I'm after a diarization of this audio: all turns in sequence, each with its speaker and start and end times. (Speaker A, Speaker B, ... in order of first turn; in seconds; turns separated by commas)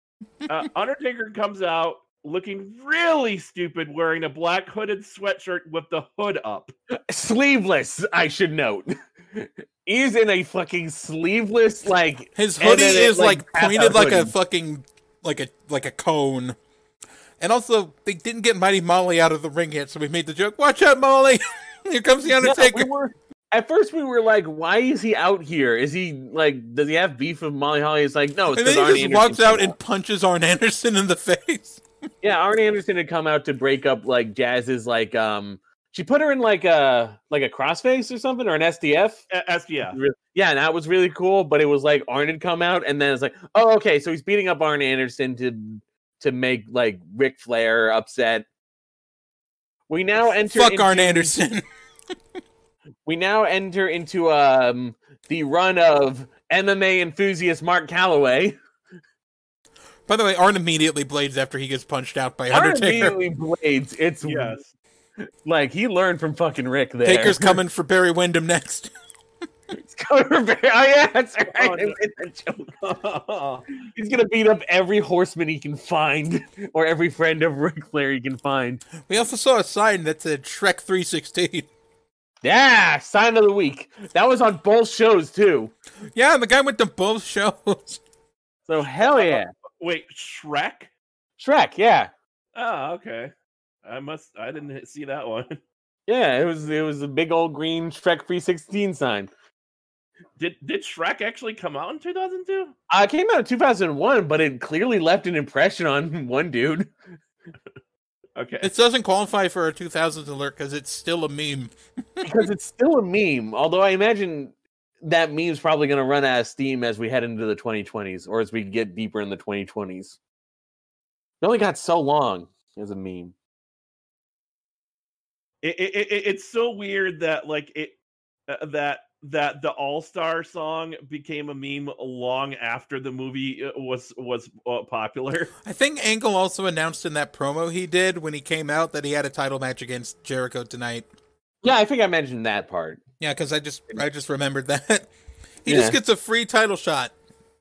Speaker A: 0.5-6.7, Speaker B: 7.0-14.3, Speaker C: 12.3-16.6, Speaker C: 17.4-22.9, Speaker B: 22.4-29.8, Speaker C: 28.5-31.8, Speaker B: 32.2-39.3, Speaker A: 39.3-40.0, Speaker B: 39.9-48.5, Speaker B: 49.9-51.3, Speaker C: 50.3-51.6, Speaker B: 53.0-58.6, Speaker C: 60.1-63.2, Speaker B: 62.5-64.6, Speaker A: 64.2-64.7, Speaker B: 65.4-67.6, Speaker C: 67.0-68.9, Speaker B: 69.7-72.7, Speaker A: 71.5-72.0, Speaker A: 72.7-73.8, Speaker B: 73.9-78.8, Speaker C: 79.0-81.7, Speaker B: 82.4-85.7, Speaker C: 86.1-88.0, Speaker B: 88.7-89.5, Speaker A: 88.8-90.9, Speaker B: 91.4-92.1, Speaker A: 92.5-93.3, Speaker A: 93.8-95.6, Speaker B: 96.1-99.3, Speaker A: 100.4-102.8, Speaker B: 102.9-106.9, Speaker A: 108.4-108.7, Speaker C: 108.6-112.3, Speaker B: 112.2-120.2, Speaker B: 121.4-123.3, Speaker A: 125.6-135.5, Speaker C: 135.7-141.1, Speaker B: 141.6-143.0, Speaker C: 143.2-145.1, Speaker C: 145.6-147.1, Speaker B: 145.7-146.0